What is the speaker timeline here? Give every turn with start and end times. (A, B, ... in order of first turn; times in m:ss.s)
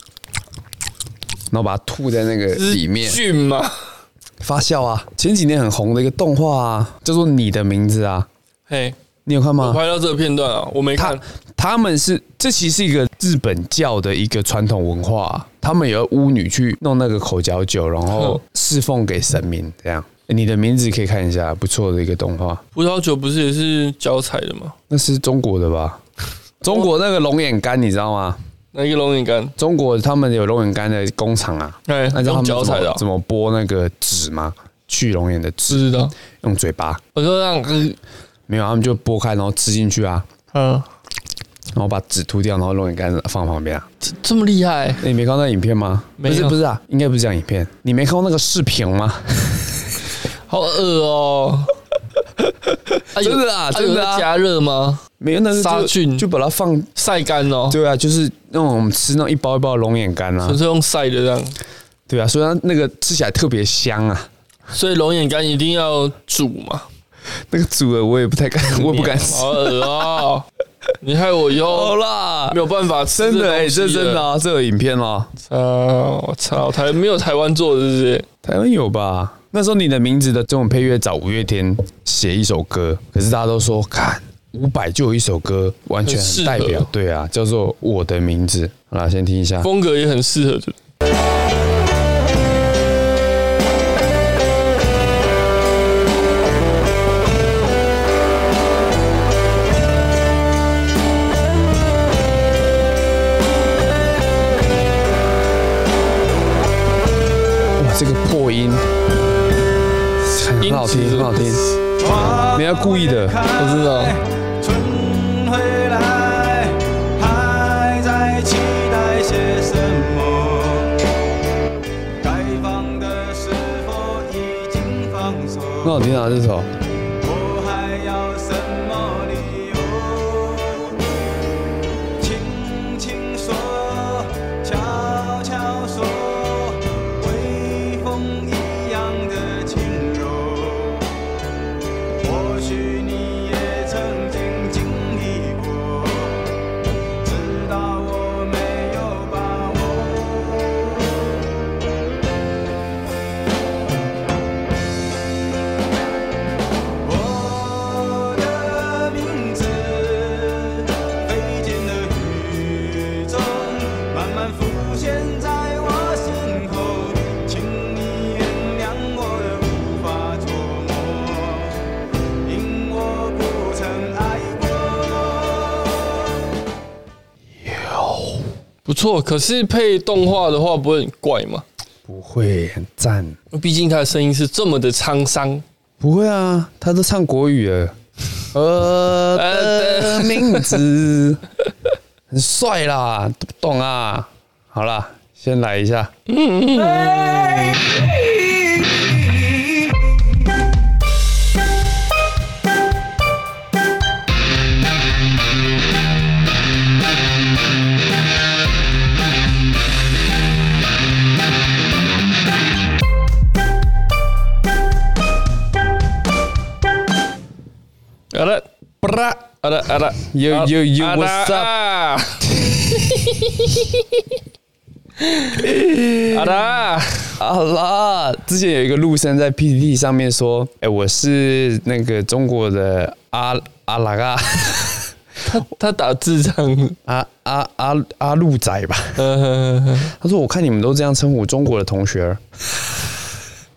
0:01.5-0:03.2 A
0:02.6-0:03.8 B
0:04.4-0:08.3 A
0:08.7-0:09.0 B
0:09.3-0:09.8 A
0:09.6-0:11.2 B
0:11.0-0:22.6 A
0:18.2-0:18.4 B
0:22.8-0:24.8 B
0:24.9-0:26.0 A
0:26.6-0:28.4 A
0:28.7-0:29.6 B
0:29.6-0:35.9 A
0:31.9-0:33.0 B
0:35.7-0:36.1 B
0:36.4-0:37.0 A
0:37.2-0:38.0 B
0:38.5-0:40.3 A
0:40.5-0:40.9 B
0:41.8-0:43.9 A
0:44.0-0:45.0 B
0:45.0-0:49.9 A
0:46.2-0:46.6 B
0:50.5-0:51.7 B
0:53.0-0:54.3 A
0:53.2-0:56.3 B
0:55.2-0:56.9 A
0:57.0-0:57.8 B
0:57.7-1:00.6 A
1:00.4-1:01.6 B
1:02.1-1:04.3 A
1:04.7-1:06.9 B
1:07.5-1:09.9 A
1:08.7-1:10.5 B
1:11.0-1:12.0 B
1:11.7-1:12.6 A
1:12.5-1:14.2 B
1:13.1-1:15.3 A
1:15.5-1:18.3 B
1:18.4-1:29.7 A
1:26.1-1:26.9 B
1:29.6-1:30.8 B
1:47.8-1:48.9 A
1:50.2-1:51.6 A
1:50.6-1:51.8 B
1:52.0-2:01.1 C
1:52.6-1:53.4 A
1:53.6-1:54.2 B
2:02.2-2:06.1 C
2:05.8-2:06.7 A
2:07.2-2:11.2 C
2:12.2-2:21.2 C
2:22.2-2:26.6 C
2:27.2-2:31.4 C
2:37.0-2:51.9 C
2:52.4-2:56.5 C
2:57.6-2:58.5 A
2:58.9-3:01.6 B
3:02.1-3:03.4 A
3:03.5-3:05.6 B
3:06.0-3:07.9 A
3:08.5-3:11.4 A
3:09.4-3:10.8 B
3:12.3-3:16.1 A
3:16.3-3:17.9 B
3:38.3-3:38.7 B
3:39.0-3:39.4 A
3:39.4-3:44.0 B
3:40.3-3:41.7 A
3:45.2-3:45.7 B
3:45.6-3:46.6 A
3:46.3-3:47.4 B
3:47.4-3:55.1 A
3:55.4-3:57.0 B
3:57.1-3:59.2 A
3:59.2-4:00.1 B
4:00.1-4:02.4 A